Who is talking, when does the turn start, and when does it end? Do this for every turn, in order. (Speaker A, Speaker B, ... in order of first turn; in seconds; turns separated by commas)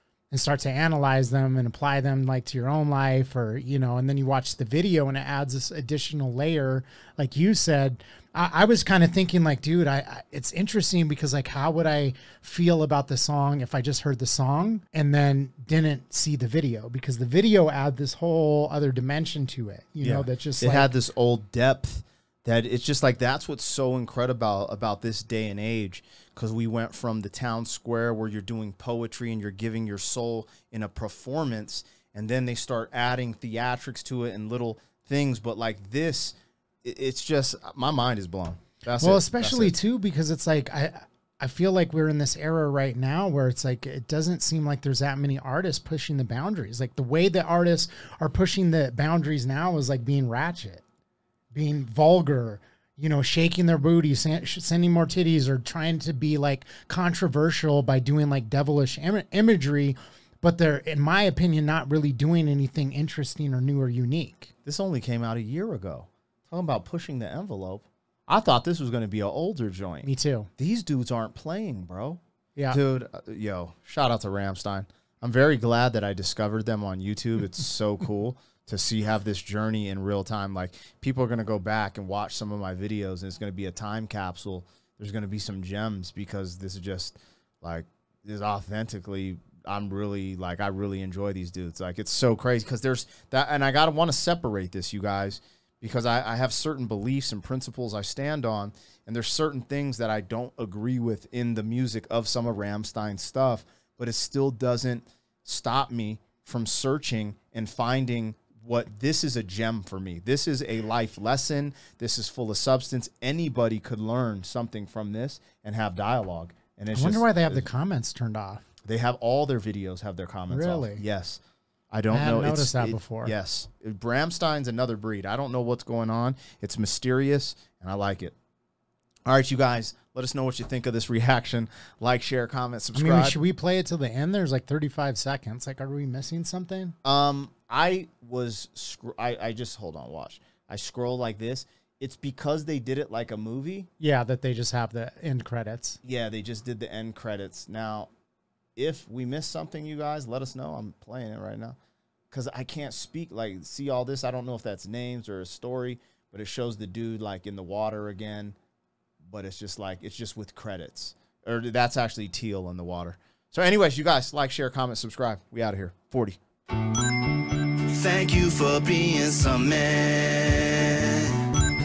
Speaker A: 0.3-20.9, Speaker B: 20.0-39.7, Speaker A: 38.9-50.8, Speaker A: 51.5-64.5, Speaker B: 64.7-72.2, Speaker A: 70.0-70.5, Speaker B: 72.7-117.7, Speaker A: 116.9-118.6, Speaker B: 118.8-121.4, Speaker A: 120.5-121.0, Speaker B: 121.9-128.3, Speaker A: 122.1-123.3, Speaker B: 129.3-133.4, Speaker A: 132.9-136.9, Speaker B: 137.0-143.9, Speaker A: 144.0-146.0, Speaker B: 146.0-148.1, Speaker B: 148.8-151.8, Speaker B: 152.3-158.6, Speaker B: 159.2-166.4, Speaker C: 167.9-171.5